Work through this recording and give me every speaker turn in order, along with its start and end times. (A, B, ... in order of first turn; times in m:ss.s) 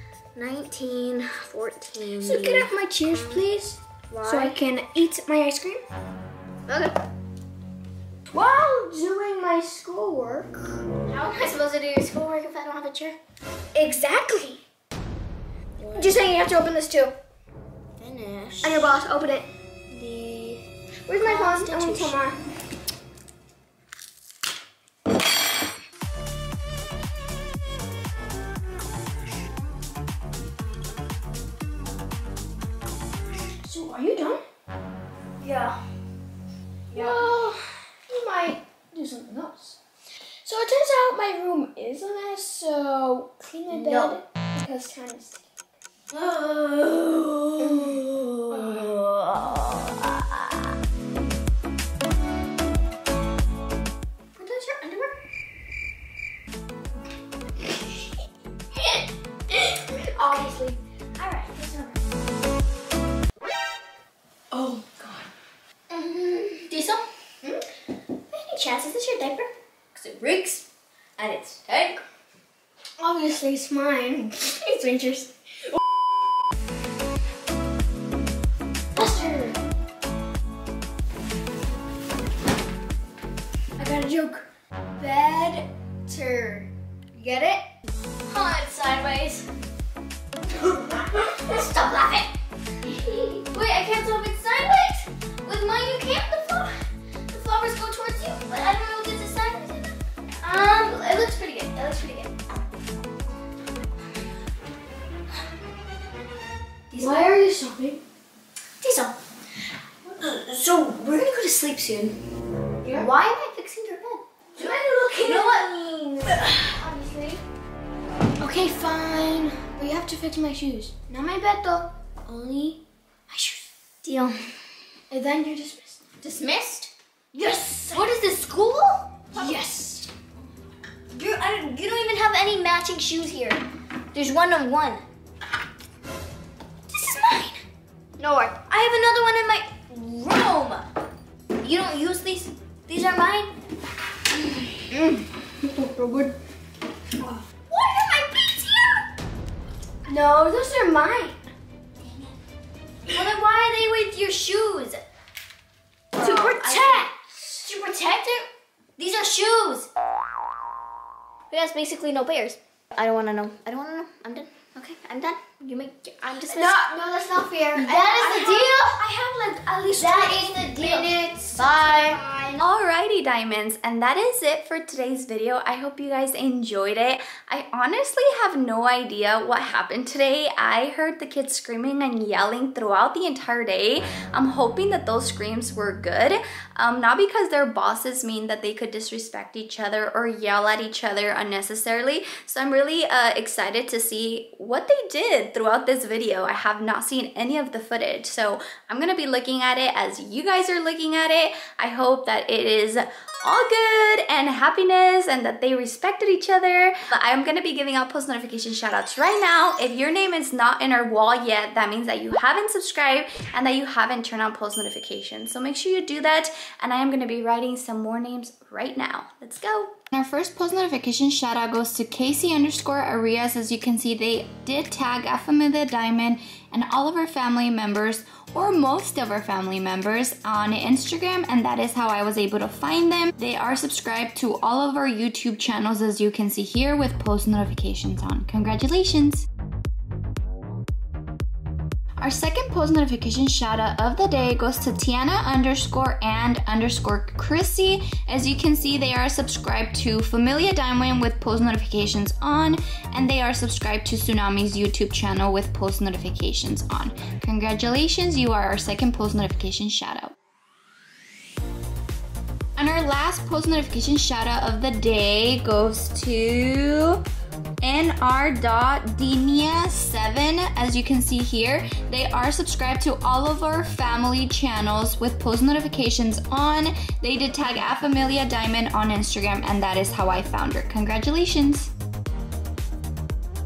0:00.4-0:03.4 A
0:02.2-0:05.8 B
0:04.1-0:04.6 A
0:06.7-0:07.0 A
0:08.2-0:10.8 B
0:11.1-0:13.2 A
0:13.7-0:14.6 B
0:15.8-0:16.2 A
0:15.9-0:17.1 B
0:18.0-0:19.0 A
0:18.6-0:19.5 B
0:19.9-0:20.6 A
0:21.1-0:22.4 B
0:21.2-0:22.2 A
0:33.6-0:34.4 B
0:35.4-0:35.8 A
0:36.9-0:37.3 A
0:36.9-0:39.8 B
0:40.4-0:45.4 B
0:43.7-0:44.2 A
0:46.1-0:50.6 A
0:47.6-0:49.0 B
0:54.4-0:55.1 B
0:59.5-1:00.8 B
1:00.2-1:00.5 A
1:01.2-1:01.9 A
1:01.6-1:01.9 B
1:04.5-1:05.3 B
1:05.9-1:07.0 A
1:08.3-1:10.6 A
1:11.2-1:12.0 A
1:13.0-1:15.3 B
1:18.9-1:19.6 B
1:23.8-1:24.4 B
1:25.0-1:27.6 A
1:28.2-1:29.5 A
1:30.6-1:32.3 A
1:32.8-1:33.4 B
1:33.4-1:36.8 A
1:37.3-1:42.5 A
1:46.9-1:47.4 A
1:47.0-1:48.0 B
1:48.8-1:49.2 A
1:50.0-1:52.2 A
1:52.8-1:53.1 B
1:52.9-1:54.2 A
1:54.5-1:57.4 B
1:55.2-1:56.7 A
1:58.4-2:02.8 B
2:03.3-2:04.5 A
2:05.1-2:06.0 B
2:06.2-2:09.6 A
2:09.3-2:10.1 B
2:11.1-2:13.6 A
2:14.1-2:15.0 A
2:16.9-2:17.6 A
2:18.2-2:20.8 A
2:21.6-2:23.5 A
2:24.9-2:26.4 B
2:27.2-2:29.0 A
2:30.0-2:31.4 B
2:32.0-2:32.3 A
2:33.1-2:35.0 A
2:36.1-2:39.9 A
2:36.2-2:37.6 B
2:41.5-2:46.8 A
2:46.5-2:52.6 B
2:47.7-2:49.0 A
2:49.9-2:52.2 A
2:52.6-3:59.4 C
4:02.2-4:20.3 C
4:22.8-4:27.2 C
4:27.8-4:41.9 C